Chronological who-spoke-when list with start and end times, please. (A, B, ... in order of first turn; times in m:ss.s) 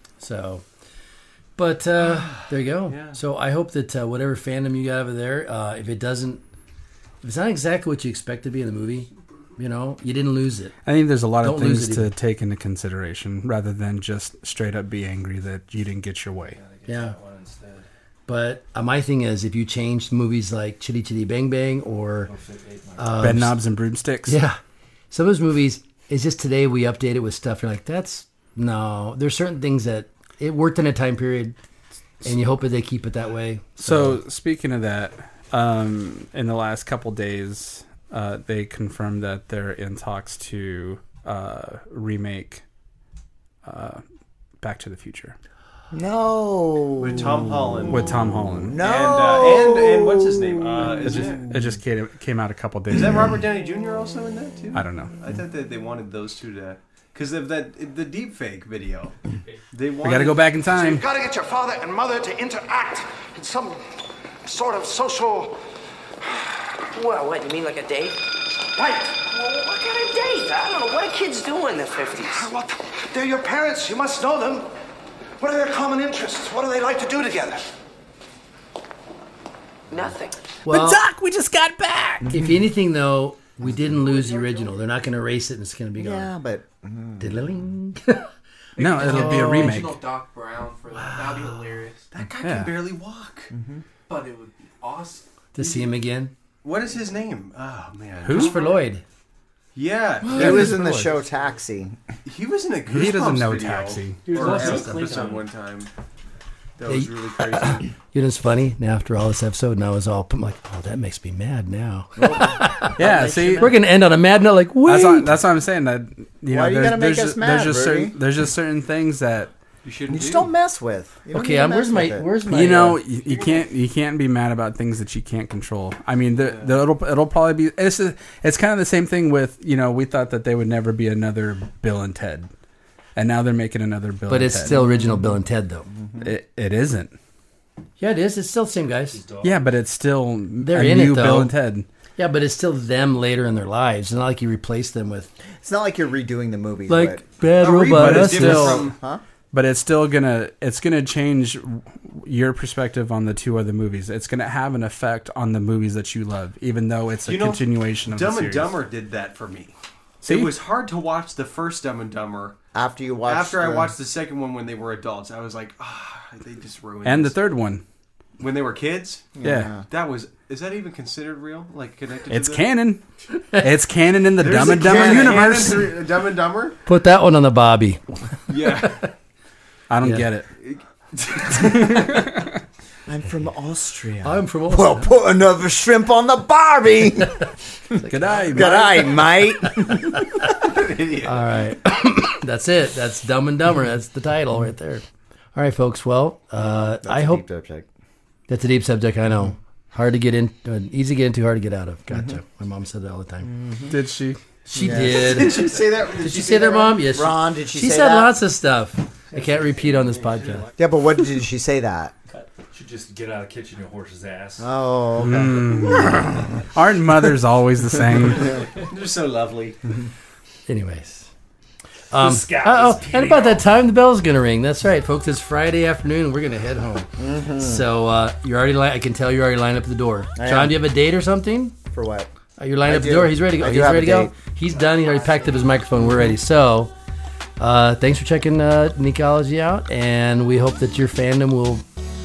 0:00.2-0:00.6 A
0:01.6-0:06.4 A
0:02.0-0:03.2 B
0:07.2-0:10.7 A
0:10.8-0:16.6 C
0:11.4-0:12.1 A
0:16.5-0:17.8 D
0:16.9-0:17.2 A
0:18.3-0:22.3 A
0:22.2-0:23.4 D
0:23.0-0:23.6 A
0:23.2-0:24.4 C
0:24.2-0:24.6 A
0:25.1-0:31.6 A
0:32.2-0:34.2 A
0:33.8-0:42.6 C
0:43.6-0:44.0 C
0:44.6-0:45.4 C
0:45.9-0:51.2 E
0:47.0-0:48.1 B
0:47.9-0:48.8 C
0:48.8-0:51.4 B
0:51.0-0:53.3 C
0:52.9-0:59.2 B
0:54.7-0:55.1 C
0:59.7-1:01.0 B
1:00.0-1:01.0 C
1:00.8-1:05.6 F
1:06.2-1:06.8 F
1:06.9-1:08.2 G
1:08.7-1:09.2 F
1:09.3-1:12.5 G
1:12.3-1:14.7 F
1:15.4-1:17.7 F
1:19.9-1:20.5 G
1:20.6-1:21.0 A
1:20.7-1:22.3 C
1:22.3-1:26.3 A
1:26.0-1:27.6 E
1:27.2-1:28.3 A
1:28.8-1:30.0 C
1:28.8-1:32.1 H
1:29.0-1:29.8 A
1:30.9-1:31.6 A
1:32.1-1:33.5 B
1:32.4-1:32.9 C
1:33.5-1:33.8 E
1:34.1-1:35.2 H
1:35.5-1:36.3 A
1:36.6-1:38.6 B
1:38.2-1:38.6 C
1:38.3-1:39.0 A
1:39.7-1:41.0 B
1:40.2-1:41.1 A
1:40.3-1:42.0 E
1:42.2-1:45.9 B
1:42.8-1:44.3 C
1:44.3-1:45.5 D
1:44.4-1:45.0 A
1:46.8-1:47.9 B
1:46.8-1:55.4 A
1:52.2-1:52.6 E
1:52.9-1:53.8 C
1:54.8-1:59.5 C
1:56.5-1:58.2 E
1:59.8-2:00.5 B
2:00.1-2:02.3 E
2:01.3-2:03.0 A
2:02.5-2:12.5 C
2:06.4-2:06.7 B
2:13.2-2:14.8 C
2:14.3-2:15.9 A
2:16.2-2:17.1 C
2:18.0-2:19.2 A
2:19.1-2:19.8 D
2:19.4-2:21.9 C
2:20.6-2:21.5 A
2:22.2-2:25.3 A
2:25.6-2:29.2 E
2:26.9-2:28.8 A
2:27.8-2:28.9 B
2:27.9-2:28.9 C
2:29.5-2:38.7 C
2:37.2-2:42.6 B
2:40.2-2:40.6 C
2:42.7-2:43.9 E
2:43.2-2:47.4 B
2:47.0-2:47.8 C
2:48.4-2:52.7 B
2:49.4-2:49.8 E
2:49.4-2:49.8 C
2:52.3-2:53.0 C
2:53.6-2:55.9 C
2:54.4-2:56.8 B
2:54.6-2:55.4 E
2:56.8-2:59.1 A
2:58.5-2:59.1 B
2:59.9-3:00.5 C
3:00.0-3:00.3 A
3:00.6-3:01.7 B
3:01.5-3:02.5 C
3:03.0-3:10.5 E
3:04.2-3:05.1 A
3:08.0-3:09.9 A
3:08.0-3:09.1 C
3:10.4-3:11.4 B
3:11.2-3:15.0 A
3:15.5-3:17.4 A
3:16.6-3:17.9 E
3:18.5-3:23.5 A
3:22.1-3:22.4 E
3:23.4-3:24.0 E
3:23.9-3:24.4 C
3:24.7-3:30.7 A
3:24.7-3:25.6 E
3:25.2-3:27.0 B
3:25.5-3:27.0 D
3:27.1-3:28.3 E
3:29.3-3:30.9 D
3:30.8-3:32.1 E
3:32.3-3:34.7 D
3:34.6-3:36.4 E
3:35.2-3:38.6 C
3:38.4-3:39.8 B
3:40.7-3:41.3 A
3:42.1-3:51.7 A
3:42.1-3:43.8 D
3:47.2-3:47.9 E
3:50.4-3:50.8 E
3:51.9-3:52.3 E
3:52.6-3:56.9 A
3:52.8-3:54.3 E
3:54.7-3:55.4 D
3:57.6-4:01.8 A